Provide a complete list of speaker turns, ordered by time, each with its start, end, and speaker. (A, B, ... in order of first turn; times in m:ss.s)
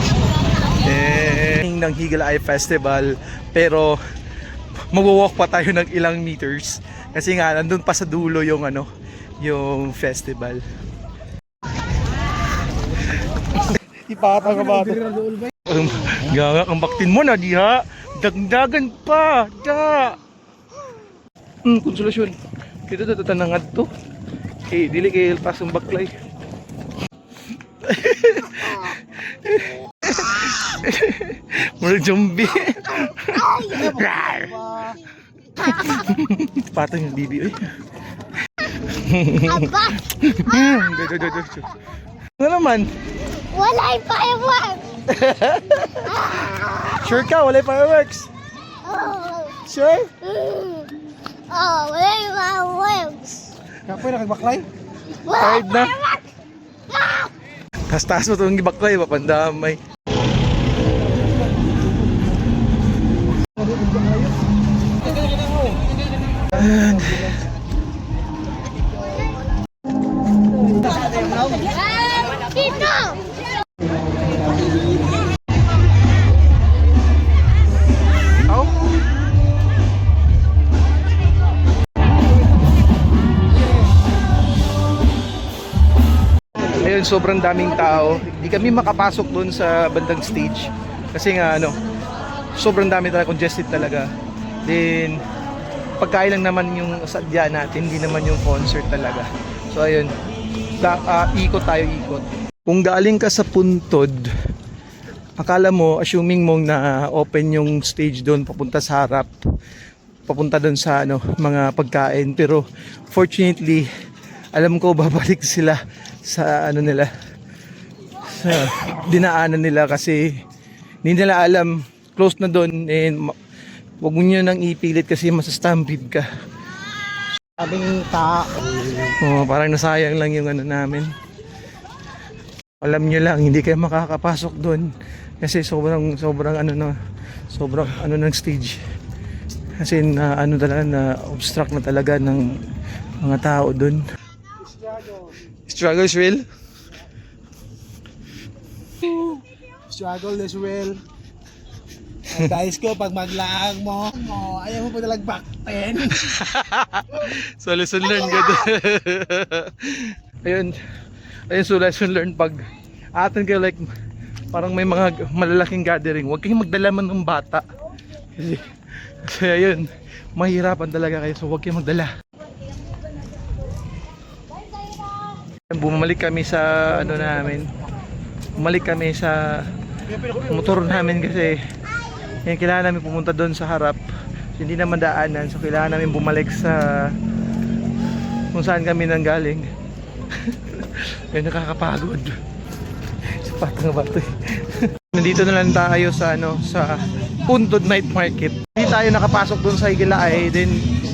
0:00.8-0:04.0 A
0:04.9-0:08.9 A
0:09.4-0:10.6 A
0:13.6-0:15.0 A
0:14.4-0:15.5 B
0:15.6-0:20.2 A
0:21.6-0:22.3 A
0:22.9-0:23.9 A
0:24.7-0:26.1 A
0:27.8-0:34.6 A
0:33.2-0:33.8 C
0:33.7-0:35.0 B
0:35.6-0:37.7 A
0:38.6-0:41.8 A
0:39.5-0:39.9 C
0:42.4-0:42.9 A
0:43.5-0:44.9 C
0:45.1-0:46.3 A
0:46.1-0:47.0 C
0:47.0-0:48.3 A
0:48.8-0:49.6 C
0:49.6-0:50.1 A
0:50.2-0:50.9 C
0:51.5-0:53.5 C
0:53.9-0:54.7 B
0:55.2-0:56.3 C
0:55.3-0:56.0 A
0:56.9-0:57.3 C
0:57.9-0:59.8 A
1:06.5-1:07.4 A
1:11.1-1:13.3 C
1:18.5-1:18.7 A
1:26.8-1:31.7 A
1:32.6-1:34.1 A
1:34.6-1:35.2 A
1:36.0-1:40.1 A
1:40.8-1:44.3 A
1:45.4-1:49.4 A
1:50.2-1:53.9 A
1:54.5-1:57.1 A
1:58.3-2:00.3 A
2:01.0-2:03.4 A
2:04.0-2:06.2 A
2:07.6-2:09.1 B
2:09.2-2:11.1 A
2:12.8-2:17.0 A
2:17.5-2:18.8 A
2:19.8-2:22.6 A
2:23.2-2:24.0 A
2:24.7-2:25.3 B
2:25.7-2:26.4 A
2:29.9-2:31.0 B
2:32.3-2:36.4 B
2:36.2-2:40.7 A
2:41.5-2:43.9 A
2:44.5-2:47.6 A
2:48.3-2:52.1 A
2:55.7-2:57.7 A
2:58.6-2:59.7 A
3:00.3-3:01.6 A
3:02.4-3:04.0 A
3:04.6-3:07.1 A
3:08.5-3:09.6 A
3:10.3-3:12.4 A
3:13.3-3:20.8 A